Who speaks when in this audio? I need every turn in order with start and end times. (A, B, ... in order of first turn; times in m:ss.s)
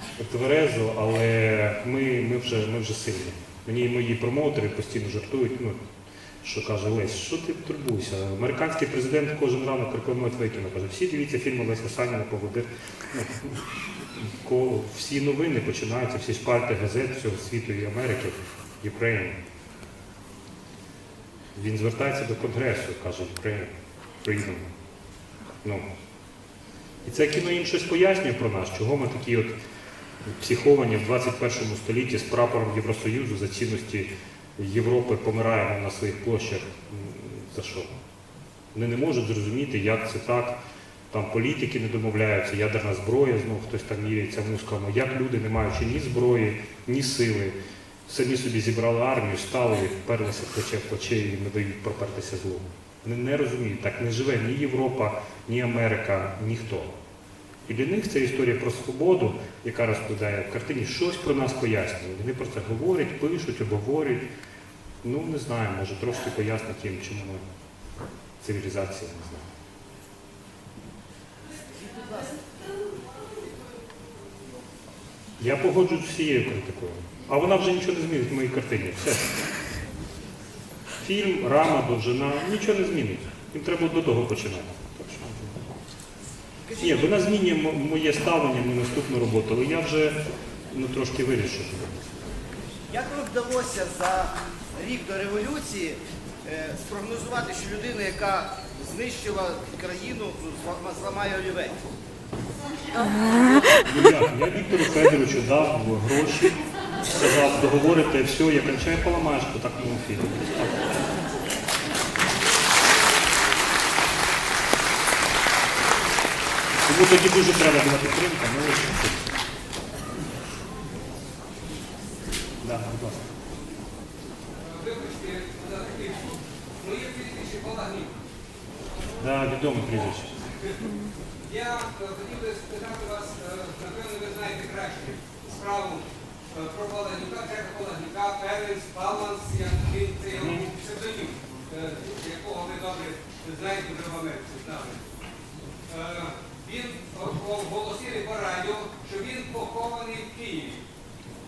0:00.2-0:05.8 A
0:06.4-0:13.6 A
0:14.2-0:19.4 A
0:21.5-0:24.7 A
0:27.0-0:29.5 A
0:30.2-0:37.9 A
0:38.7-0:40.6 A
0:41.1-0:47.5 A
0:48.0-0:56.9 A
0:57.6-1:04.2 A
1:05.0-1:07.4 A
1:08.4-1:09.5 A
1:11.9-1:12.3 B
1:15.4-1:19.4 A
1:21.0-1:25.7 A
1:26.7-1:30.2 A
1:30.7-1:32.1 A
1:32.9-1:41.8 B
1:43.7-1:50.9 A
1:56.8-1:59.3 A
2:02.6-2:03.3 A
2:04.6-2:08.2 C
2:09.2-2:10.3 A
2:11.4-2:25.0 C
2:20.3-2:20.7 A
2:25.9-2:30.8 C